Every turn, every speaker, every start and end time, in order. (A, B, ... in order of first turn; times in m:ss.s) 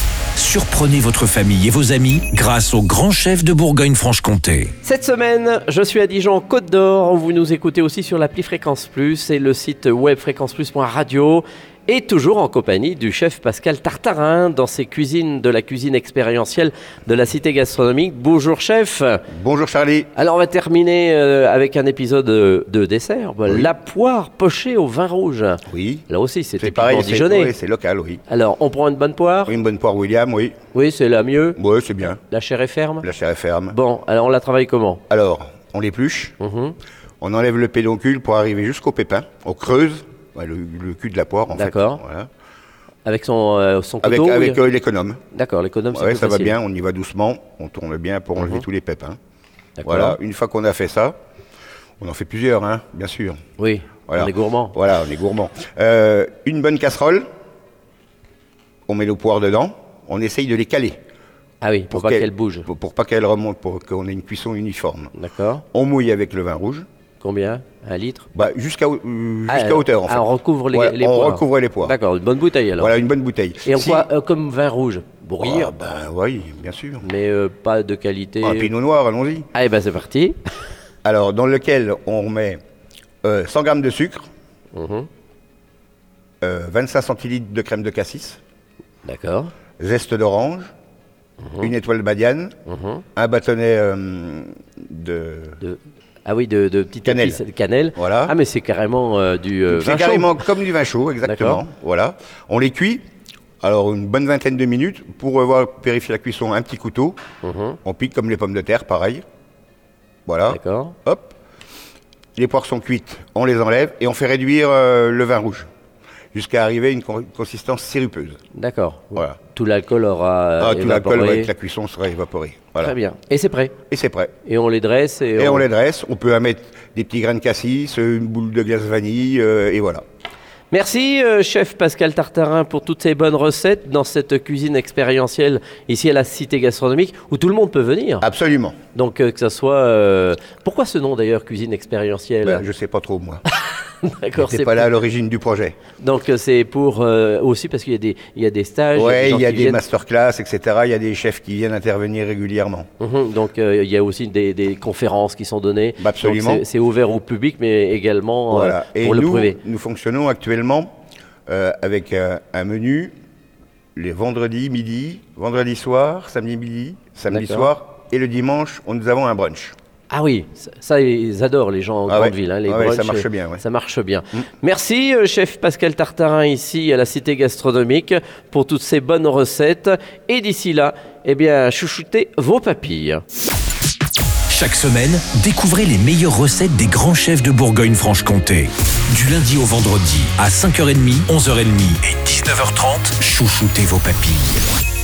0:00.4-0:04.7 A
0:04.8-0:19.2 B
0:19.3-0:20.1 C
0:20.2-0:27.5 B
0:23.5-0:23.7 C
0:25.7-0:26.0 C
0:26.6-0:28.2 C
0:28.3-0:29.6 B
0:29.5-0:30.5 C
0:30.7-0:31.6 B
0:31.6-0:32.2 C
0:32.2-0:33.1 B
0:33.0-0:33.8 C
0:33.7-0:35.0 B
0:35.1-0:36.3 C
0:36.4-0:36.8 B
0:37.2-0:42.3 C
0:41.5-0:42.0 B
0:43.0-0:44.6 B
0:44.0-0:45.2 C
0:45.3-0:46.6 B
0:45.9-0:49.2 C
0:48.4-0:48.6 B
0:49.8-0:50.2 B
0:49.8-0:51.2 C
0:52.0-0:53.4 C
0:53.6-0:54.8 B
0:54.1-0:57.2 C
0:58.9-1:01.0 C
1:01.6-1:02.7 B
1:01.9-1:05.1 C
1:05.2-1:05.6 B
1:05.7-1:06.9 C
1:07.2-1:08.3 B
1:08.3-1:12.0 C
1:09.5-1:13.0 B
1:12.8-1:14.1 C
1:13.6-1:15.8 B
1:15.4-1:17.1 C
1:17.0-1:18.7 B
1:18.4-1:19.5 C
1:19.5-1:20.4 B
1:21.0-1:22.6 C
1:23.2-1:24.2 C
1:24.7-1:25.1 B
1:26.4-1:28.4 C
1:29.0-1:29.5 B
1:29.8-1:30.7 C
1:31.4-1:31.7 B
1:31.6-1:32.6 C
1:32.7-1:33.0 B
1:33.2-1:35.6 C
1:35.6-1:40.3 B
1:37.0-1:37.4 C
1:38.0-1:38.3 C
1:39.7-1:43.0 C
1:41.2-1:41.6 B
1:43.6-1:47.2 C
1:47.4-1:47.8 B
1:47.8-1:49.2 C
1:50.3-1:51.3 C
1:50.5-1:51.0 B
1:52.4-1:55.7 C
1:56.3-1:58.4 C
1:58.5-2:01.5 B
2:00.6-2:03.0 C
2:02.8-2:03.7 B
2:03.9-2:04.3 C
2:04.4-2:05.7 B
2:05.4-2:10.0 C
2:10.7-2:18.3 B
2:18.2-2:18.8 C
2:18.9-2:22.7 B
2:22.4-2:23.4 C
2:23.5-2:24.9 B
2:24.4-2:25.8 C
2:26.0-2:29.8 B
2:28.9-2:32.9 C
2:33.0-2:39.6 B
2:36.0-2:36.7 C
2:38.5-2:40.9 C
2:41.5-2:43.1 C
2:44.0-2:49.7 C
2:47.3-2:47.7 B
2:50.1-3:03.2 B
2:52.1-2:53.6 C
3:04.5-3:14.6 A